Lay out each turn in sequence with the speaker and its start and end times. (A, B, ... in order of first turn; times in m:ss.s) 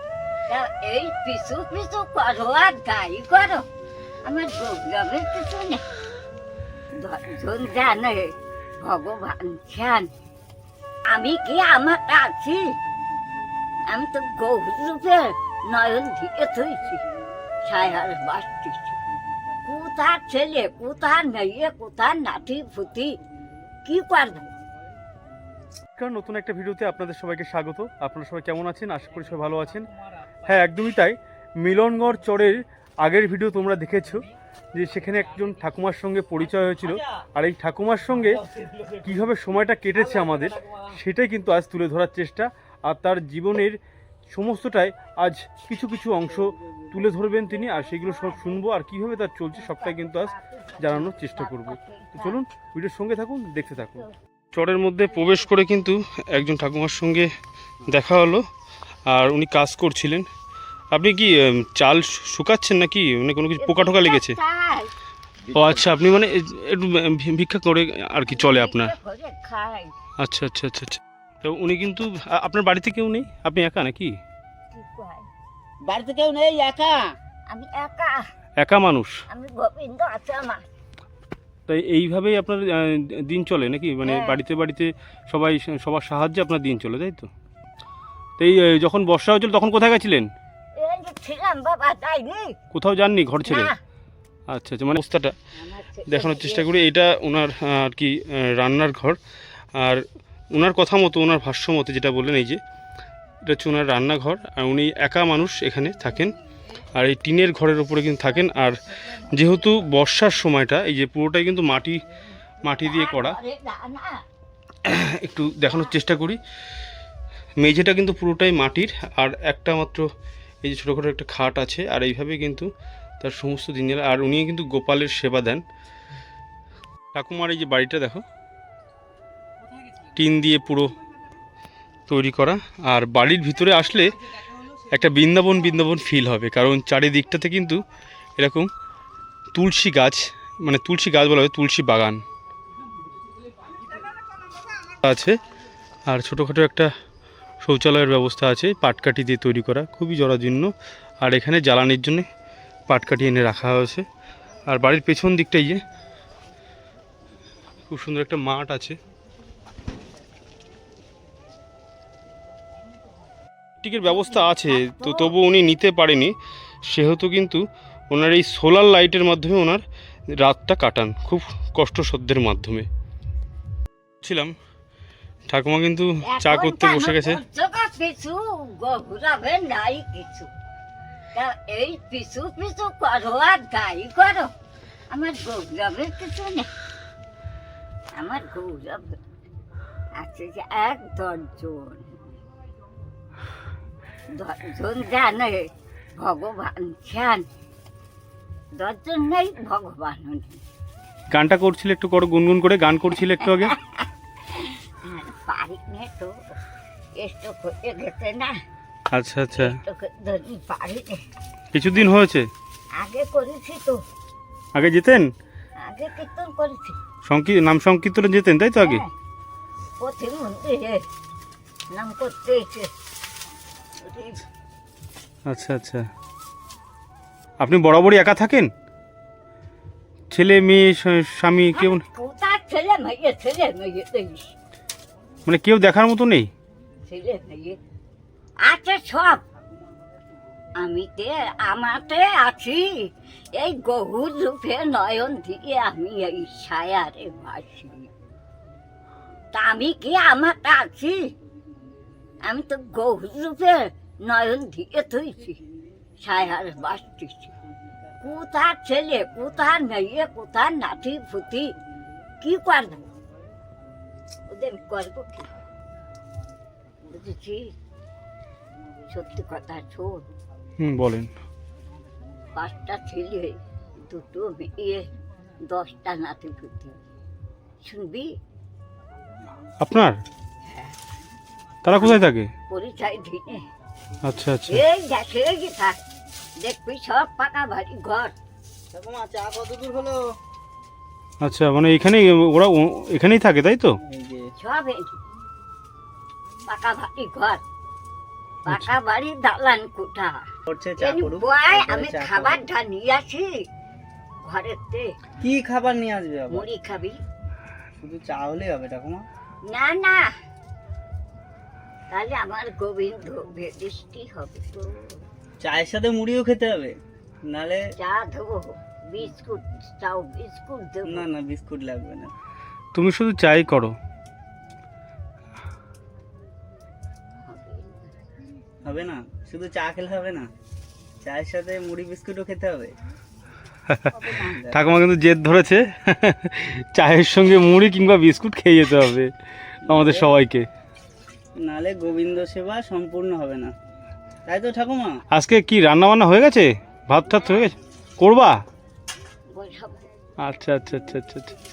0:00.5-0:03.6 A
0:04.2-0:05.8 A
0:07.0-0:10.1 A
0:11.1-0:12.6 A
0:13.9-0:17.0 A
0:17.7-0:19.0 A
0:19.6-0:23.1 A
0:23.8-0:24.5 A
0:26.0-0:29.9 B
0:30.4-0:38.4 B
0:39.0-0:57.3 B
0:47.6-0:48.6 A
0:49.6-0:52.4 A
0:57.9-0:58.4 B
0:59.1-1:00.3 B
1:00.9-1:04.4 B
1:03.6-1:04.9 A
1:05.5-1:08.9 B
1:08.3-1:09.9 A
1:10.2-1:14.2 B
1:14.7-1:15.3 A
1:15.9-1:17.1 C
1:17.5-1:18.2 A
1:18.6-1:19.1 B
1:19.3-1:20.7 A
1:21.7-1:27.3 B
1:24.0-1:24.4 A
1:28.4-1:30.3 B
1:30.8-1:32.6 A
1:32.7-1:33.7 B
1:33.4-1:33.8 A
1:34.5-1:35.3 B
1:35.6-1:36.8 A
1:36.1-1:39.2 B
1:39.8-1:42.6 B
1:43.4-1:46.3 B
1:46.9-1:48.8 B
1:48.6-1:49.3 A
1:49.3-1:52.0 B
1:52.6-1:53.4 B
1:52.7-1:54.2 A
1:54.8-1:56.4 B
1:57.6-2:00.1 B
2:00.6-2:02.7 B
2:03.2-2:05.6 B
2:07.1-2:08.2 B
2:10.2-2:10.9 B
2:12.1-2:14.2 B
2:14.9-2:17.8 B
2:18.4-2:18.7 B
2:19.5-2:22.2 B
2:24.9-2:25.4 B
2:26.1-2:26.9 B
2:27.6-2:32.2 B
2:32.9-2:34.0 B
2:34.7-2:35.8 B
2:37.9-2:39.0 B
2:43.8-2:46.3 B
2:44.5-2:45.3 A
2:46.8-2:49.8 B
2:50.4-2:52.9 B
2:54.2-2:54.5 B
2:55.5-2:57.4 B
2:56.2-3:00.5 A
3:01.3-3:04.5 A
3:05.1-3:06.7 A
3:08.2-3:09.2 A
3:10.2-3:12.2 A
3:14.3-3:17.4 A
3:18.8-3:20.6 A
3:21.3-3:23.8 B
3:23.4-3:26.4 A
3:27.2-3:28.6 A
3:29.1-3:29.8 B
3:29.5-3:31.2 A
3:31.7-3:32.5 B
3:33.0-3:34.0 A
3:34.8-3:35.3 B
3:35.8-3:37.0 A
3:37.2-3:39.0 B
3:38.8-3:39.1 A
3:40.0-3:41.0 A
3:41.9-3:42.9 A
3:44.0-3:44.4 A
3:45.5-3:46.0 B
3:47.6-3:48.7 B
3:50.3-3:52.0 B
3:51.7-3:54.5 A
3:55.5-3:56.5 B
3:57.0-3:57.8 A
3:58.6-3:59.4 A
4:00.8-4:08.1 A
4:09.5-4:11.3 A
4:12.4-4:15.6 A
4:16.2-4:17.5 A
4:18.2-4:21.8 A
4:22.4-4:23.1 A
4:24.5-4:25.5 A
4:27.0-4:27.7 A
4:29.1-4:30.2 A
4:30.8-4:31.3 B
4:32.6-4:35.1 A
4:35.6-4:36.9 A
4:37.8-4:38.3 A
4:39.8-4:40.2 B
4:40.7-4:40.9 A
4:41.8-4:42.5 B
4:41.9-4:43.6 A
4:44.2-4:44.8 B
4:44.7-4:46.0 A
4:46.6-4:48.3 A
4:48.9-4:50.4 C
4:51.4-4:54.0 B
4:54.0-4:54.5 C
4:54.6-4:55.1 A
4:56.6-4:57.6 A
4:58.6-5:00.4 A
5:00.7-5:02.6 C
5:01.0-5:03.6 A
5:04.4-5:05.1 A
5:05.4-5:06.7 C
5:06.5-5:07.2 A
5:08.0-5:09.3 C
5:09.6-5:10.3 A
5:12.1-5:15.2 A
5:15.6-5:17.8 C
5:18.0-5:21.3 A
5:21.0-5:22.3 C
5:22.9-5:24.0 B
5:27.4-5:28.1 A
5:28.8-5:30.5 C
5:31.2-5:32.9 C
5:33.9-5:39.3 B
5:34.3-5:34.6 A
5:34.4-5:34.8 C
5:39.8-5:40.7 B
5:39.9-5:40.3 C
5:41.6-5:43.7 C
5:44.4-5:45.2 C
5:45.3-5:48.6 B
5:49.5-5:50.1 A
5:50.4-5:51.5 B